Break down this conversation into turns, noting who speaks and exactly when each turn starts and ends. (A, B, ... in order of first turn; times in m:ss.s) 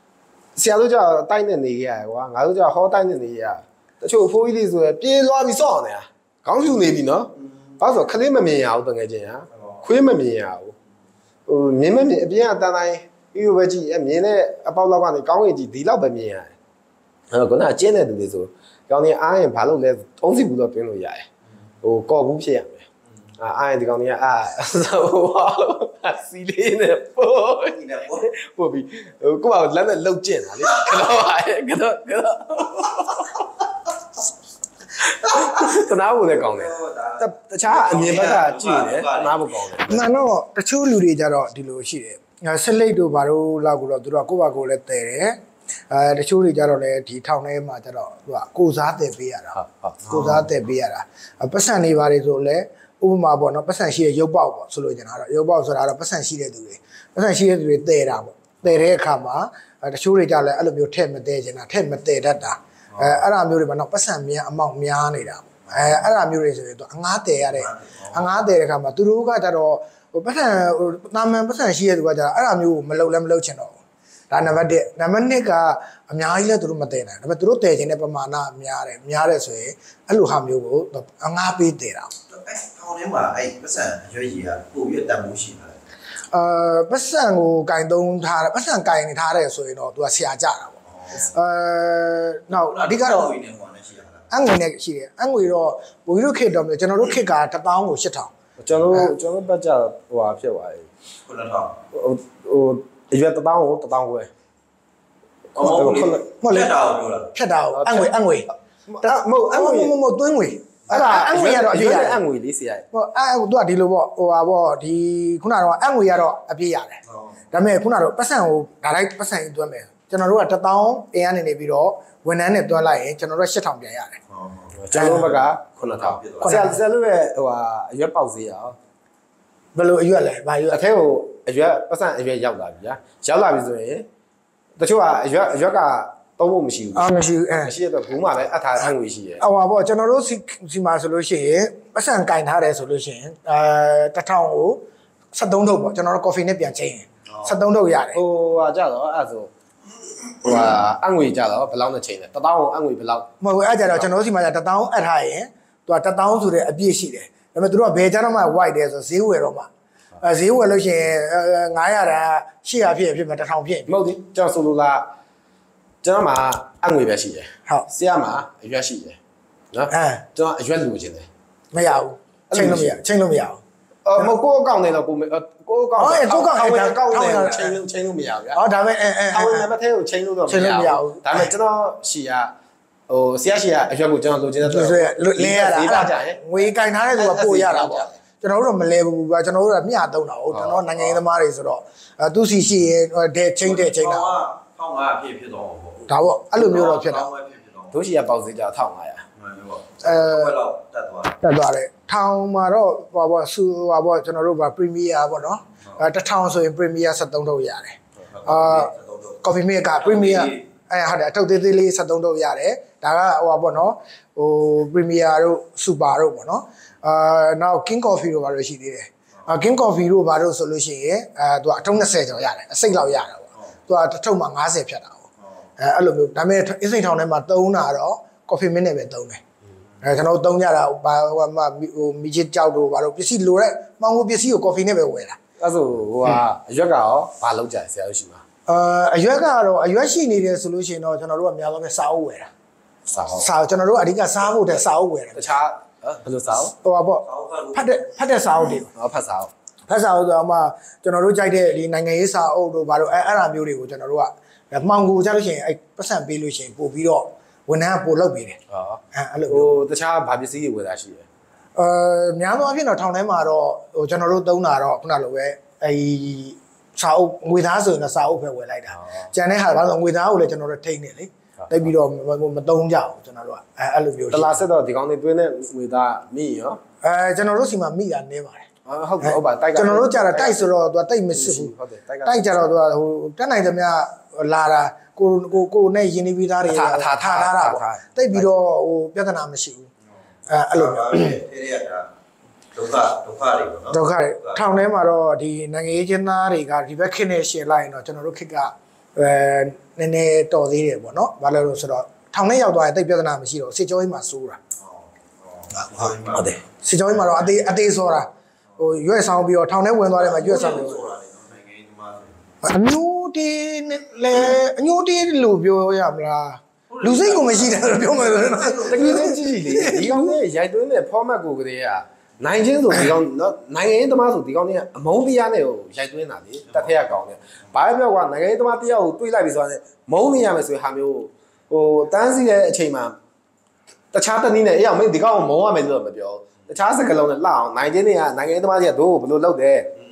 0:00.5-0:10.7 A
0:11.5-0:16.5 A
0:17.3-0:21.3 A
0:21.8-0:22.9 A
0:23.4-0:33.4 A
0:27.6-0:28.3 B
0:35.0-0:40.2 A
0:36.4-0:39.4 B
0:39.8-1:13.8 C
0:49.6-0:50.5 A
1:07.6-1:08.1 B
1:14.3-1:22.1 C
1:22.3-1:25.8 B
1:26.3-1:33.3 C
1:31.0-1:31.3 B
1:32.5-1:34.3 B
1:34.3-1:38.3 C
1:38.6-1:40.9 A
1:41.2-1:41.8 B
1:41.9-1:44.3 A
1:45.5-1:46.2 A
1:45.6-1:47.3 B
1:46.4-1:46.8 C
1:47.3-1:48.5 C
1:47.7-1:48.3 A
1:48.9-1:50.0 A
1:49.0-1:52.2 C
1:50.9-1:52.8 A
1:52.9-2:04.2 C
2:04.3-2:04.7 B
2:04.8-2:08.8 A
2:04.9-2:05.4 C
2:05.8-2:06.6 B
2:06.4-2:06.8 C
2:09.7-2:10.8 C
2:10.7-2:14.0 A
2:14.8-2:19.4 A
2:17.0-2:17.7 C
2:19.4-2:28.2 C
2:27.3-2:27.6 B
2:28.1-2:29.5 A
2:30.4-2:33.3 A
2:33.4-2:39.7 C
2:40.2-2:44.0 C
2:43.9-2:45.1 A
2:46.0-2:49.2 A
2:49.7-2:51.3 A
2:49.9-2:50.2 C
2:51.7-2:53.6 C
2:52.5-2:53.0 A
2:54.0-2:58.6 A
2:56.0-2:57.8 C
2:58.5-2:59.7 C
2:59.3-3:02.5 A
3:00.5-3:01.5 C
3:03.1-3:08.1 A
3:04.6-3:14.4 C
3:10.5-3:11.2 A
3:13.6-3:18.0 B
3:16.1-3:17.3 C
3:17.9-3:19.2 A
3:19.4-3:21.4 B
3:20.0-3:20.6 C
3:21.4-3:45.2 C
3:28.3-3:29.4 B
3:30.0-3:30.6 B
3:45.8-3:49.4 C
3:50.0-3:55.4 C
3:55.6-3:58.4 A
3:58.7-4:02.5 C
4:03.1-4:03.5 A
4:03.3-4:05.6 C
4:05.3-4:06.7 A
4:06.8-4:08.9 C
4:07.2-4:08.0 B
4:08.9-4:09.5 A
4:09.9-4:18.6 C
4:18.7-4:21.2 A
4:19.1-4:19.8 C
4:21.8-4:34.6 C
4:28.9-4:29.3 A
4:31.6-4:31.9 A
4:34.3-4:36.8 A
4:37.0-4:38.7 C
4:38.8-4:40.7 A
4:39.2-4:41.7 C
4:41.3-4:42.6 A
4:42.2-4:49.9 C
4:46.6-4:48.5 A
4:50.5-4:51.4 C
4:50.7-4:52.1 B
4:52.7-4:54.6 B
4:53.9-5:04.6 C
5:04.8-5:06.6 B
5:06.0-5:11.1 C
5:10.1-5:12.4 B
5:12.6-5:20.4 C
5:16.9-5:19.2 B
5:18.9-5:33.2 A
5:34.1-5:39.9 A